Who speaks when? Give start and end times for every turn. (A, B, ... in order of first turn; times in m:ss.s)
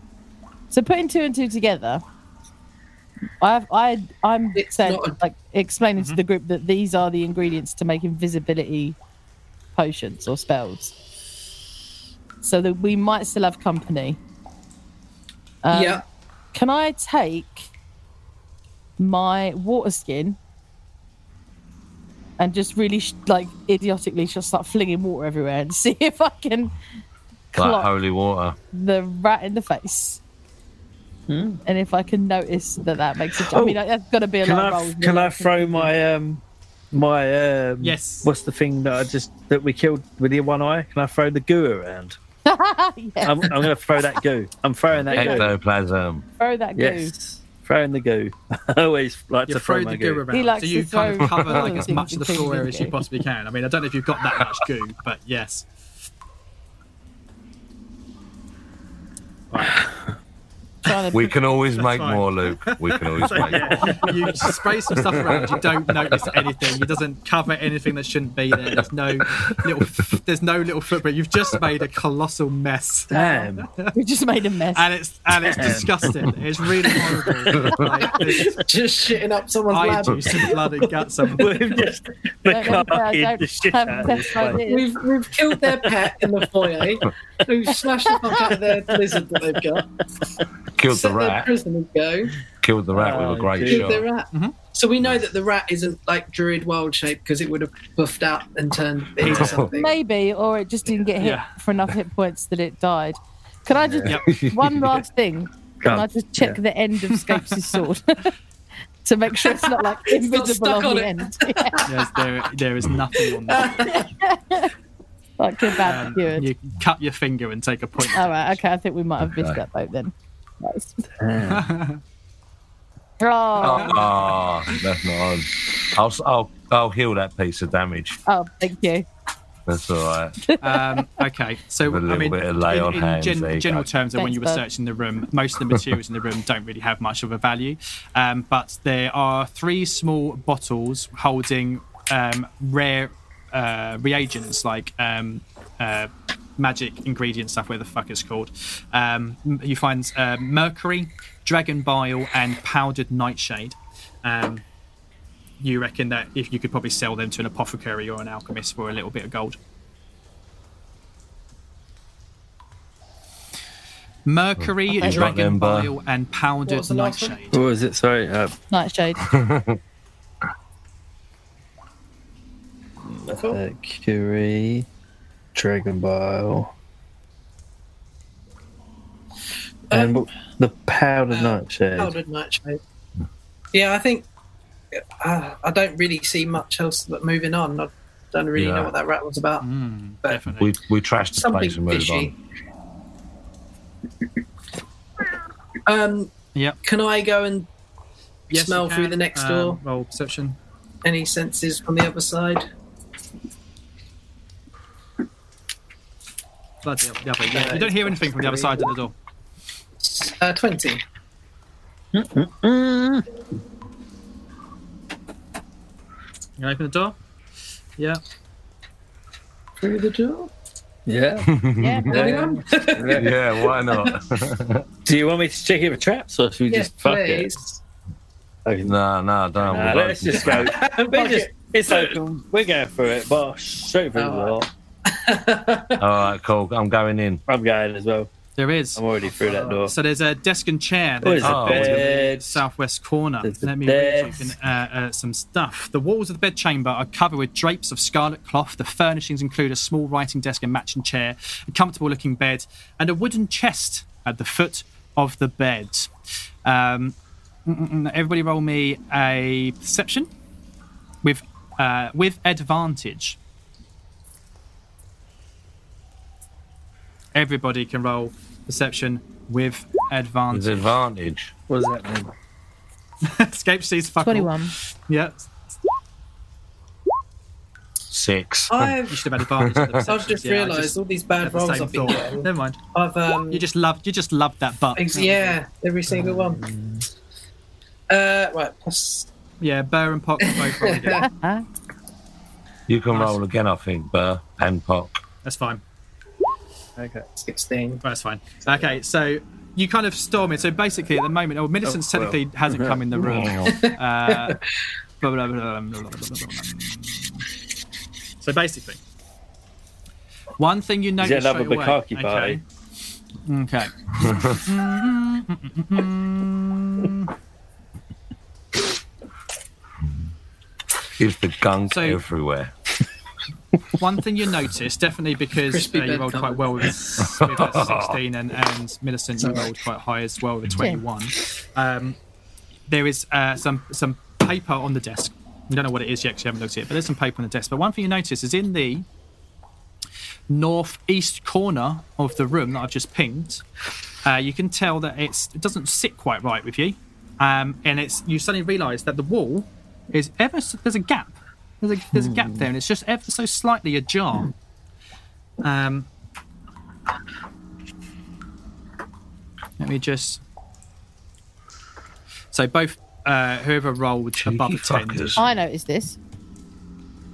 0:00.7-0:02.0 A
0:03.4-0:09.0 A
0:04.6-0:05.2 B
0:06.0-0:06.2 C
0:09.8-0:10.9 A
0:12.4-0:14.2 A
0:15.6-0:16.0 A
0:15.7-0:16.0 B
0:16.5-0:17.7 A
0:19.0-0:20.4 A
0:22.4-0:26.8 A
0:27.5-0:27.9 A
0:27.5-0:28.6 D
0:28.7-0:30.2 A
0:31.3-0:31.6 E
0:31.7-0:35.9 A
0:33.4-0:33.8 E
0:34.4-0:42.2 E
0:37.8-0:38.3 C
0:42.5-0:43.6 A
0:43.2-0:45.5 E
0:44.9-0:46.3 D
0:46.4-0:47.1 A
0:46.8-0:50.2 E
0:49.5-0:55.7 C
0:50.3-0:53.0 A
0:51.3-0:51.8 D
0:59.5-0:59.8 C
1:00.8-1:01.3 A
1:01.1-1:04.1 D
1:01.8-1:13.9 C
1:03.3-1:04.6 E
1:05.1-1:05.6 D
1:13.1-1:13.7 E
1:13.1-1:14.9 A
1:14.7-1:18.7 C
1:15.4-1:16.1 E
1:18.4-1:20.7 B
1:19.7-1:21.7 C
1:21.4-1:24.6 E
1:22.5-1:24.9 A
1:24.5-1:29.9 B
1:25.6-1:27.0 E
1:30.8-1:31.5 D
1:30.9-1:32.4 B
1:32.6-1:34.1 D
1:32.9-1:34.0 E
1:33.6-1:40.0 B
1:39.2-1:39.7 D
1:39.2-1:39.6 C
1:39.6-1:48.3 A
1:41.2-1:41.5 C
1:44.0-1:44.3 C
1:44.3-1:44.9 D
1:45.8-1:46.6 E
1:47.1-1:47.8 C
1:49.0-1:51.8 A
1:49.5-1:51.9 B
1:51.9-1:53.9 C
1:53.5-1:54.1 B
1:53.9-1:54.7 A
1:55.4-1:56.5 A
1:55.8-1:58.6 C
1:58.1-2:01.1 A
1:59.2-1:59.6 D
2:01.2-2:01.7 E
2:01.4-2:02.0 C
2:03.2-2:04.1 A
2:03.6-2:08.2 D
2:03.6-2:04.0 C
2:08.3-2:09.1 A
2:09.7-2:10.4 D
2:10.4-2:11.1 A
2:10.6-2:34.6 C
2:11.9-2:13.9 D
2:14.2-2:14.6 A
2:35.6-2:39.6 C
2:44.3-2:47.6 C
2:44.9-2:45.9 D
2:46.7-2:47.4 B
2:47.5-2:48.6 E
2:48.7-2:49.2 A
2:49.2-2:49.8 D
2:53.1-2:54.9 E
2:53.3-2:53.6 B
2:55.6-2:56.7 E
2:59.9-3:00.3 B
2:59.9-3:02.2 E
3:01.3-3:02.8 B
3:03.7-3:04.3 B
3:04.9-3:09.7 B
3:08.6-3:08.9 D
3:09.6-3:10.7 C
3:10.6-3:12.3 D
3:11.4-3:12.3 B
3:15.9-3:17.7 B
3:18.5-3:19.8 B
3:18.5-3:20.6 C
3:21.0-3:22.6 B
3:26.8-3:29.2 C
3:27.5-3:28.9 B
3:30.0-3:31.0 B
3:32.1-3:33.3 E
3:36.6-3:37.2 C
3:39.8-3:40.5 B
3:41.1-3:41.5 E
3:41.5-3:42.1 D
3:41.8-3:42.6 A
3:42.1-3:43.3 E
3:42.1-3:44.2 B
3:43.1-3:44.8 D
3:45.0-3:47.5 E
3:46.7-3:47.8 B
3:48.6-3:48.9 E
3:48.8-3:50.8 D
3:49.6-3:54.7 E
3:50.6-3:52.2 B
3:54.2-3:56.0 B
3:56.0-3:57.4 D
3:57.5-3:58.3 E
3:58.6-3:59.0 C
3:59.0-3:59.9 E
3:59.4-3:59.8 B
3:59.7-4:16.1 C
4:01.2-4:02.6 E
4:01.4-4:02.0 D
4:03.4-4:04.6 E
4:16.6-4:17.2 C
4:17.7-4:20.3 C
4:21.2-4:23.4 C
4:27.4-4:30.9 C
4:30.5-4:31.5 D
4:31.7-4:32.3 E
4:33.2-4:35.5 C
4:34.2-4:34.7 A
4:38.1-4:39.0 D
4:38.7-4:39.2 B
4:39.1-4:42.8 C
4:39.6-4:40.0 D
4:40.1-4:43.6 B
4:43.5-4:45.6 C
4:45.0-4:46.6 B
4:46.1-4:47.1 E
4:48.1-4:49.3 B
4:49.6-4:51.3 C
4:50.5-4:51.2 B
4:51.2-4:51.6 A
4:52.9-4:55.2 D
4:53.1-4:53.4 C
4:55.4-4:55.8 C
4:57.0-4:57.3 E
4:57.4-4:58.0 B
4:58.0-5:04.6 C
5:01.8-5:03.7 E
5:03.3-5:03.6 D
5:03.6-5:04.6 B
5:05.2-5:07.4 C
5:08.4-5:09.0 C
5:10.6-5:12.6 C
5:11.2-5:12.6 E
5:13.4-5:17.3 C
5:14.2-5:14.6 D
5:21.2-5:22.7 D
5:21.9-5:22.2 C
5:24.0-5:32.2 C
5:25.7-5:27.2 B
5:27.2-5:28.2 D
5:32.9-5:39.1 C
5:40.5-5:43.6 C
5:44.2-5:54.5 C
5:52.2-5:52.6 E
5:55.6-5:56.1 C
5:59.8-6:00.4 C
6:02.5-6:05.6 C
6:04.4-6:05.4 D
6:05.4-6:06.2 A